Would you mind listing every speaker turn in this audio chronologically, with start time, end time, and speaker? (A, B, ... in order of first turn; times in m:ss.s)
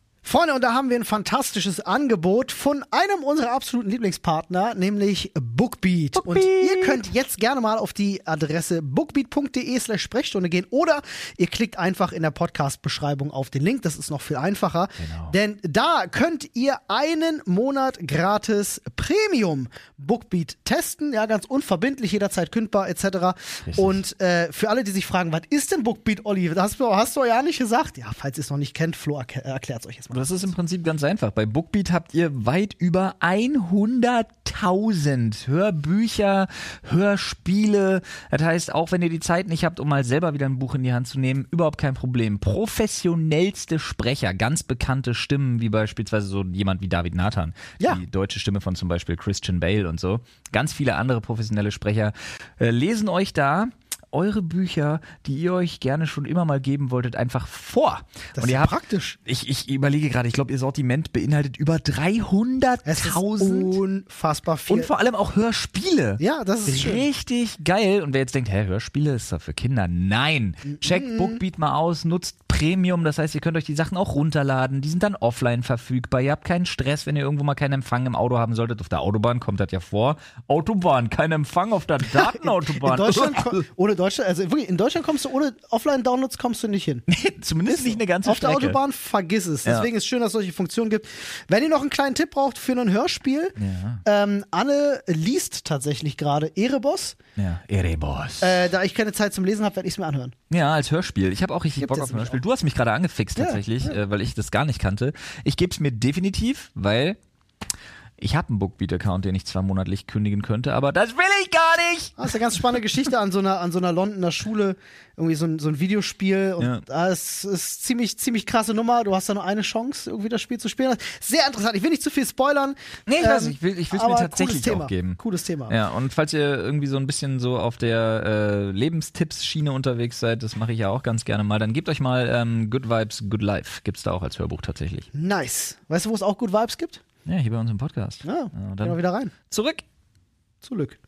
0:00.2-0:30.5 A
0:06.1-0:07.0 B
0:15.0-0:15.4 B
0:23.6-0:24.0 B
0:30.1-1:03.8 B
0:58.3-0:59.2 A
1:02.8-1:04.9 A
1:04.7-1:23.6 B
1:06.2-1:07.0 A
1:10.7-1:11.4 A
1:22.1-1:27.0 A
1:27.1-1:28.8 B
1:27.6-1:37.2 A
1:33.6-1:34.0 B
1:37.4-1:38.6 B
1:38.4-1:40.3 A
1:40.5-1:47.2 B
1:41.8-1:42.4 A
1:43.4-1:44.0 A
1:48.2-1:52.3 B
1:52.2-2:05.8 A
1:56.6-1:56.8 B
2:03.1-2:15.1 B
2:15.1-2:17.0 A
2:17.2-2:19.8 B
2:18.2-2:19.3 A
2:20.6-2:21.0 A